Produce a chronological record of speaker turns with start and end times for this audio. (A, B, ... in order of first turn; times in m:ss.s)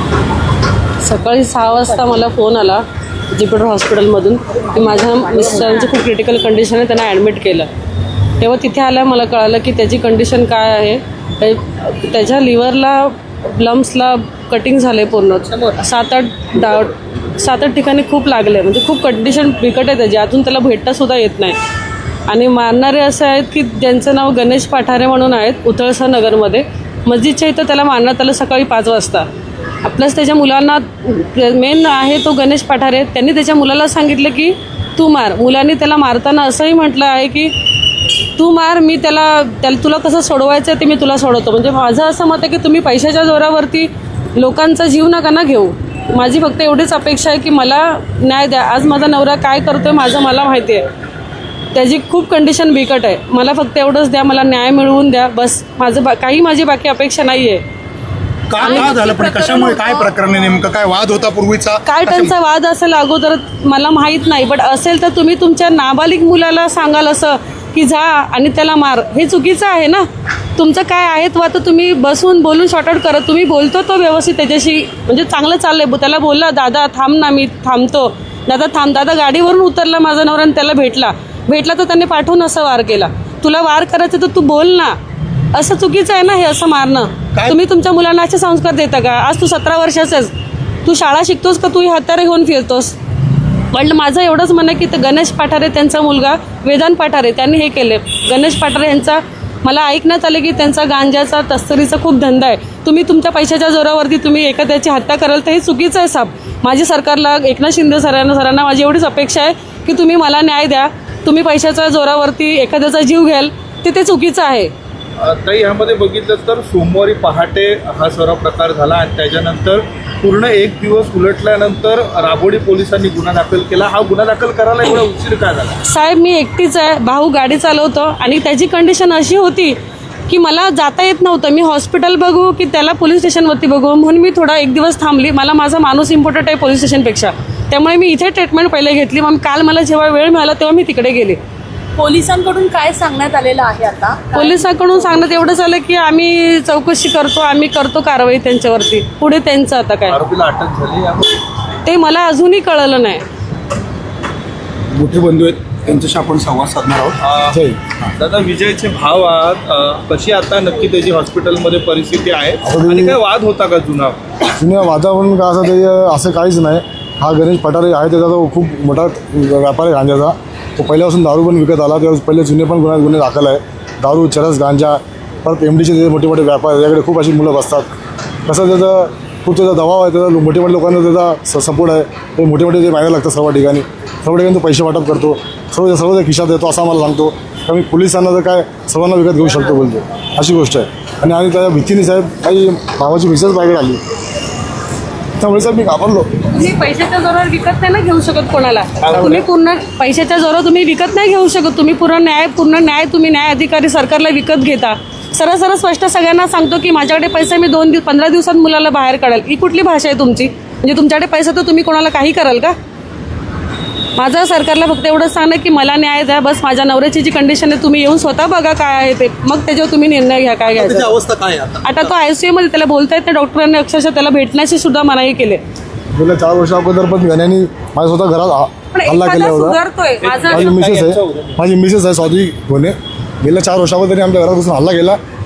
0:01.0-0:07.7 A
0:08.4-0:21.6 A
0:22.3-0:29.3 A
0:29.8-0:50.9 A
0:51.7-0:57.6 A
0:58.5-1:02.3 B
0:58.6-0:59.0 A
0:58.7-1:00.1 C
1:01.8-1:25.0 A
1:25.5-1:30.3 A
1:30.8-1:33.0 A
1:33.7-1:54.7 A
1:55.2-2:05.8 D
2:05.8-2:09.8 A
2:10.3-2:21.4 A
2:22.0-2:24.7 C
2:24.3-2:30.2 A
2:30.1-2:31.3 D
2:31.8-2:33.2 A
2:35.0-2:37.2 B
2:37.2-2:37.6 D
2:37.5-2:37.9 E
2:38.2-2:44.2 D
2:42.6-2:43.2 E
2:44.6-2:57.9 E
2:58.5-3:14.0 E
3:15.4-3:16.4 E
3:16.5-3:32.7 A
3:34.2-3:41.2 A
3:40.7-3:41.9 B
3:41.8-3:45.6 A
3:46.1-3:49.8 E
3:48.9-3:50.8 A
3:50.2-3:51.6 D
3:50.5-3:55.2 E